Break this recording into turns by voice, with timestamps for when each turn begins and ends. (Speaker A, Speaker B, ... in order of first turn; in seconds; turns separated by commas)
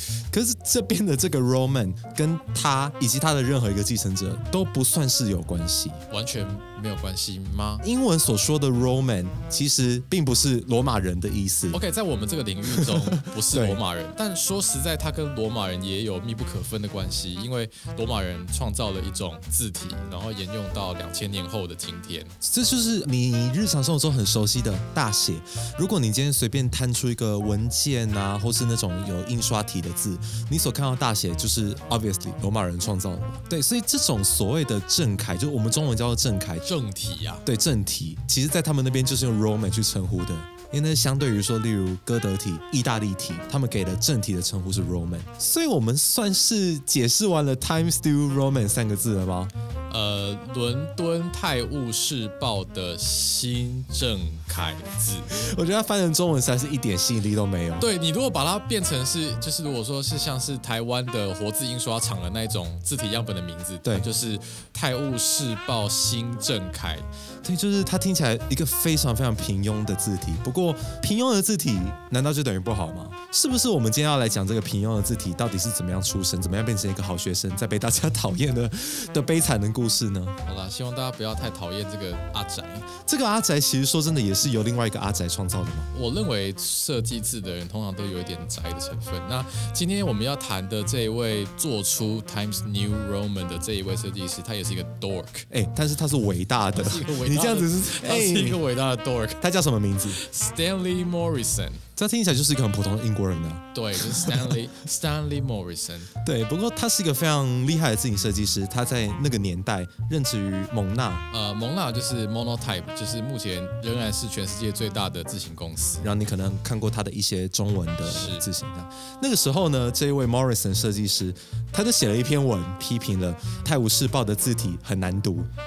Speaker A: 0.3-6.0, Speaker B: 6.1-7.8, Speaker A: 7.8-11.8, Speaker B: 11.7-22.4, Speaker A: 12.7-13.8, Speaker A: 22.4-36.6, Speaker B: 36.6-37.4, Speaker A: 37.4-49.5, Speaker B: 49.9-55.3, Speaker A: 55.3-57.9, Speaker B: 57.8-67.1, Speaker A: 67.4-80.4, Speaker B: 80.4-82.9, Speaker A: 83.0-85.9, Speaker B: 85.9-95.5, Speaker A: 95.5-98.6, Speaker B: 96.7-99.4, Speaker A: 99.4-100.2, Speaker B: 100.1-101.8, Speaker A: 102.0-104.6, Speaker B: 103.7-106.1, Speaker A: 106.2-111.2, Speaker B: 111.3-116.0, Speaker A: 116.0-125.5, Speaker B: 118.0-118.5